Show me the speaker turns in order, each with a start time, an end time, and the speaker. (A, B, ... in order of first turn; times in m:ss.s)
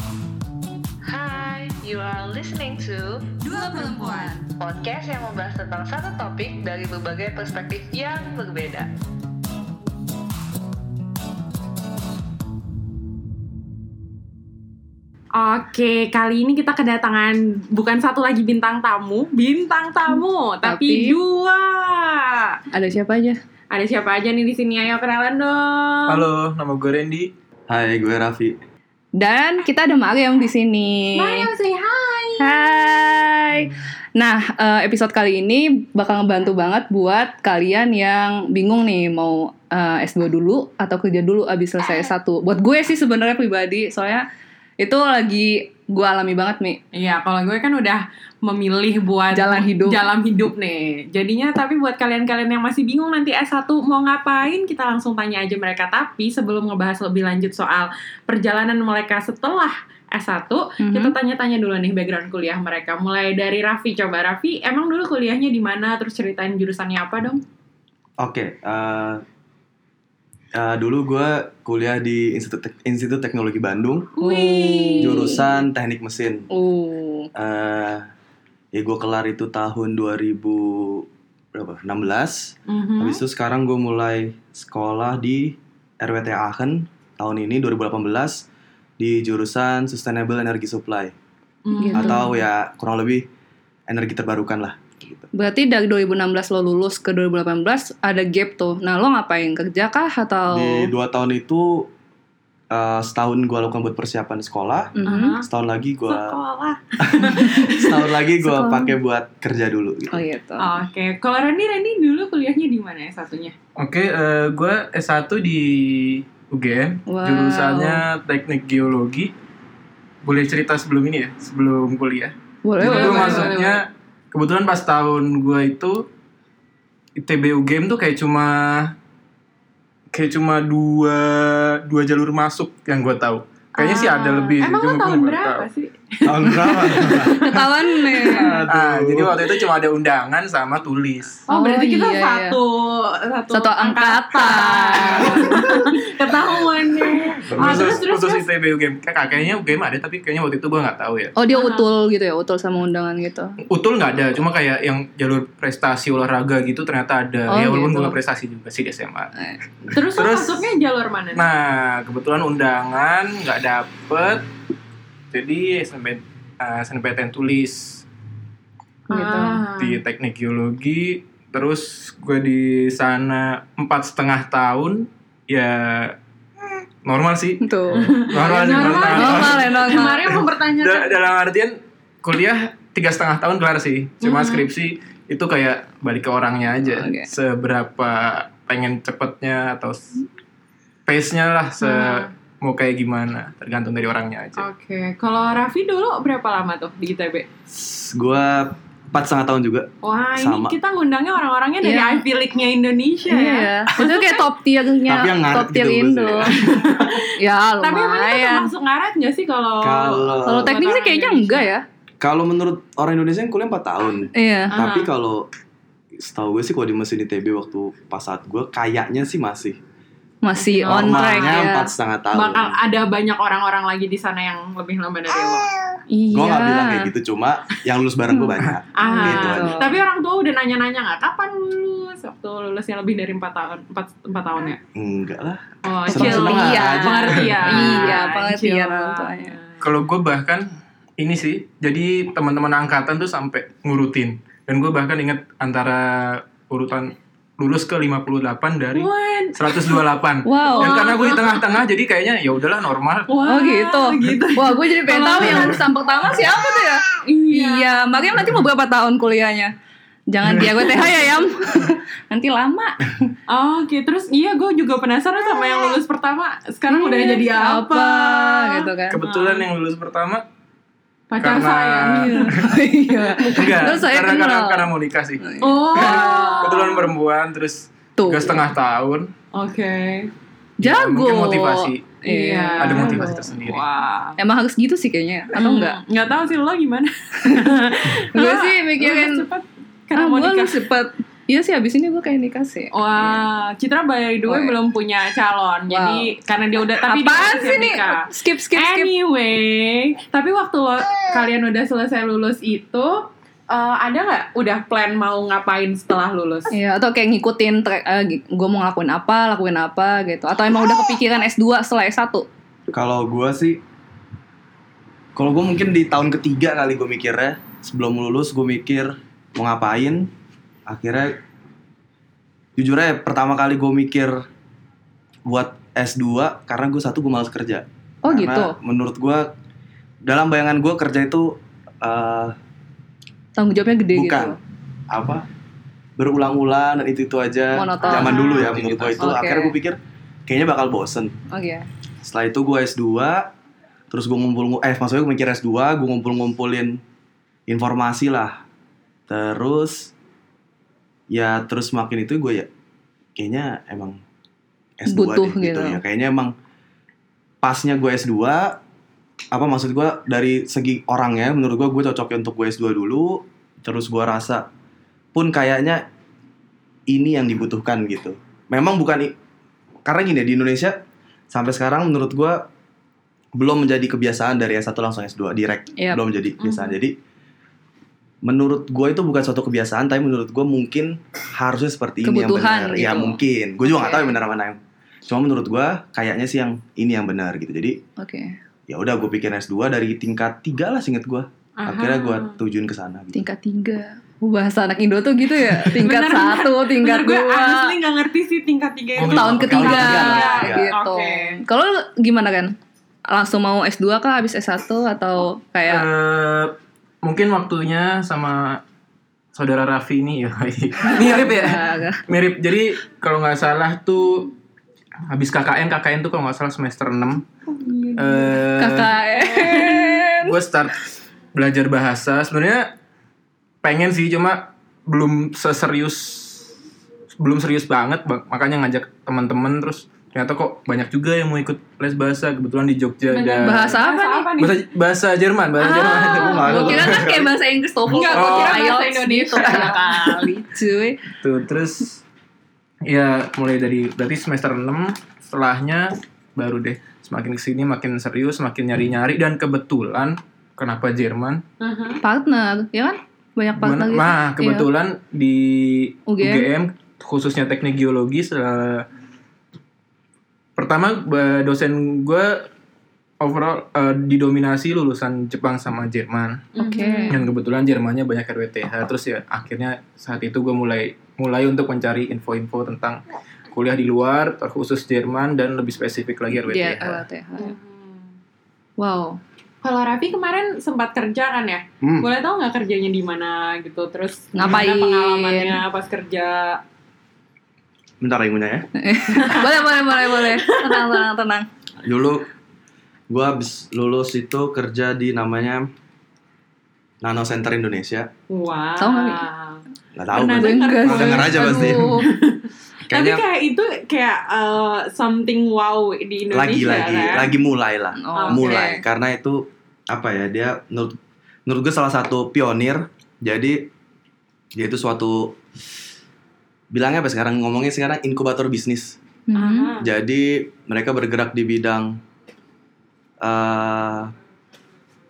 0:01.1-0:08.9 A
0:03.5-0:04.3 B
0:03.5-0:04.5 C
0:15.3-0:22.6 B
0:20.6-0:21.2 C
0:22.7-0:23.4 C
0:23.7-0:26.2 B
0:26.1-0:27.3 D
0:27.7-0:28.6 E
0:29.2-0:31.5 C
0:31.2-0:32.6 B
0:32.4-0:44.2 C
0:44.8-0:46.8 C
0:46.9-1:07.4 B
0:49.3-0:50.0 C
1:00.8-1:01.2 C
1:08.2-1:09.2 E
1:10.5-1:14.1 E
1:14.2-1:15.2 B
1:14.2-1:15.4 C
1:15.0-1:16.5 E
1:16.5-1:17.3 C
1:17.3-1:18.0 E
1:18.7-1:28.4 E
1:22.7-1:23.2 B
1:29.0-1:31.1 E
1:31.6-1:32.3 B
1:31.7-1:32.3 C
1:31.9-1:33.3 E
1:33.9-1:35.2 E
1:35.3-1:40.9 C
1:40.5-1:41.9 E
1:42.7-1:46.4 E
1:45.0-1:45.4 C
1:45.0-1:45.5 B
1:46.1-1:48.0 B
1:47.0-1:50.2 E
1:48.4-1:48.9 C
1:50.1-1:50.7 C
1:50.6-1:53.5 B
1:53.8-1:59.3 D
1:57.1-1:58.0 C
2:00.2-2:06.1 D
2:02.6-2:03.5 C
2:02.8-2:03.8 B
2:07.2-2:08.9 D
2:10.1-2:15.7 D
2:13.8-2:18.6 B
2:16.2-2:17.5 E
2:17.0-2:18.6 C
2:18.2-2:19.4 E
2:18.7-2:21.4 D
2:21.5-2:28.4 B
2:21.5-2:22.6 C
2:23.5-2:25.7 C
2:27.5-2:28.0 E
2:27.5-2:31.3 D
2:31.4-2:33.6 C
2:31.5-2:31.8 B
2:33.6-2:39.3 D
2:37.5-2:38.2 C
2:39.9-2:41.4 B
2:39.9-2:40.7 D
2:41.3-2:44.4 D
2:45.3-2:48.0 D
2:49.1-2:50.0 B
2:49.1-2:49.6 C
2:49.8-2:56.2 D
2:57.0-3:10.2 D
2:57.6-3:00.4 C
2:58.0-3:01.2 B
3:04.2-3:04.7 B
3:06.9-3:07.3 C
3:11.0-3:14.7 D
3:11.8-3:12.3 B
3:14.6-3:17.4 B
3:17.7-3:20.7 E
3:20.0-3:24.4 B
3:21.8-3:22.2 C
3:23.3-3:26.5 C
3:25.0-3:26.9 E
3:26.5-3:27.3 B
3:27.4-3:28.7 C
3:27.8-3:31.7 B
3:29.8-3:30.7 E
3:30.4-3:31.8 C
3:32.2-3:35.5 E
3:34.3-3:34.7 C
3:34.7-3:35.1 B
3:36.2-3:39.8 E
3:40.4-3:41.9 C
3:40.5-3:41.6 B
3:40.9-3:42.8 E
3:42.3-3:45.7 B
3:46.1-3:47.1 C
3:46.3-3:49.8 E
3:48.9-3:54.8 B
3:49.0-3:50.0 C
3:54.9-3:57.4 E
3:55.8-3:59.8 B
3:56.1-3:59.6 C
3:57.3-3:57.8 D
3:59.8-4:13.4 D
4:08.9-4:10.0 B
4:10.4-4:11.1 C
4:10.7-4:11.6 B
4:13.3-4:15.8 B
4:13.4-4:19.7 C
4:17.1-4:18.2 B
4:20.3-4:23.1 C
4:23.5-4:29.6 B
4:26.9-4:29.2 C
4:29.1-4:30.4 D
4:31.3-4:34.0 B
4:31.4-4:32.8 D
4:32.2-4:37.0 C
4:33.5-4:39.3 D
4:35.6-4:37.1 B
4:38.2-4:38.6 C
4:39.5-4:40.3 B
4:40.8-4:42.2 D
4:40.8-4:43.4 C
4:42.2-4:44.4 B
4:42.8-4:43.8 D
4:44.4-4:46.0 C
4:45.5-4:50.8 B
4:48.2-4:49.4 C
4:50.1-4:53.4 C
4:52.9-5:06.7 B
4:54.4-4:54.8 C
4:55.9-4:56.3 C
4:57.1-4:59.1 C
5:06.7-5:12.5 C
5:12.9-5:13.8 E
5:15.4-5:20.3 E
5:20.9-5:21.4 E
5:22.8-5:24.4 E
5:25.4-5:29.5 E
5:28.2-5:28.8 C
5:30.2-5:32.5 E
5:33.6-5:34.6 C
5:34.1-5:34.6 E
5:35.1-5:35.5 E
5:36.2-5:41.3 E
5:37.7-5:38.6 C
5:38.0-5:38.7 B
5:38.1-5:39.2 D
5:39.2-5:39.7 C
5:41.5-5:41.8 C
5:42.2-5:43.5 E
5:44.1-5:47.0 E
5:47.7-5:48.6 E
5:49.3-5:50.1 E
5:51.3-5:52.7 E
5:53.4-5:54.2 E
5:55.0-5:56.5 E
5:55.1-5:56.0 C
5:57.6-5:58.8 E
5:59.5-6:04.7 E
6:05.3-6:06.0 E
6:07.1-6:09.3 E
6:10.0-6:12.6 E
6:13.6-6:17.2 E
6:16.0-6:16.2 C
6:16.6-6:17.0 B
6:18.4-6:28.0 E
6:22.2-6:24.4 C
6:28.2-6:28.6 C
6:28.9-6:33.4 E
6:31.8-6:32.5 B
6:33.3-6:38.0 C
6:35.9-6:41.6 B
6:39.2-6:40.5 D
6:39.2-6:42.7 C
6:39.6-6:40.9 E
6:43.3-6:46.0 C
6:45.9-6:48.8 D
6:49.5-6:54.5 D
6:51.2-6:52.2 C
6:55.3-6:57.4 D
6:57.7-6:58.5 B
6:58.2-6:59.1 D
6:58.8-7:00.5 C
6:59.6-6:59.9 B
6:59.7-7:02.9 D
7:03.8-7:06.7 D
7:07.3-7:14.0 D
7:13.3-7:14.8 B
7:13.6-7:14.5 C
7:14.6-7:17.2 D
7:15.8-7:21.2 C
7:15.9-7:17.0 B
7:16.3-7:17.5 E
7:18.1-7:20.4 B
7:18.2-7:19.0 D
7:19.6-7:19.9 D
7:21.4-7:22.2 D
7:23.1-7:31.6 D
7:31.8-7:32.2 B
7:32.2-7:34.9 C
7:33.8-7:39.0 D
7:36.2-7:36.7 C
7:40.8-7:42.7 D
7:43.4-7:46.7 D
7:46.8-7:47.4 B
7:46.8-7:47.4 C
7:47.3-7:53.2 D
7:53.7-7:57.2 D
7:56.5-7:57.7 C
7:57.6-7:58.2 B
7:59.0-7:59.4 C
7:59.8-8:06.8 B
8:02.0-8:02.3 E
8:04.5-8:05.8 C
8:08.2-8:08.9 E
8:09.0-8:11.7 C
8:09.3-8:11.2 B
8:12.0-8:12.4 E
8:13.3-8:15.9 E
8:17.2-8:18.3 E
8:18.5-8:27.5 B
8:19.0-8:19.4 C
8:20.2-8:22.1 E
8:20.5-8:22.2 C
8:23.1-8:23.4 E
8:26.5-8:33.9 E
8:28.2-8:29.0 C
8:28.4-8:28.8 B
8:34.7-8:35.6 E
8:36.9-8:39.2 E
8:39.5-8:39.9 C
8:39.5-8:40.1 B
8:40.0-8:42.2 E
8:43.4-8:44.3 E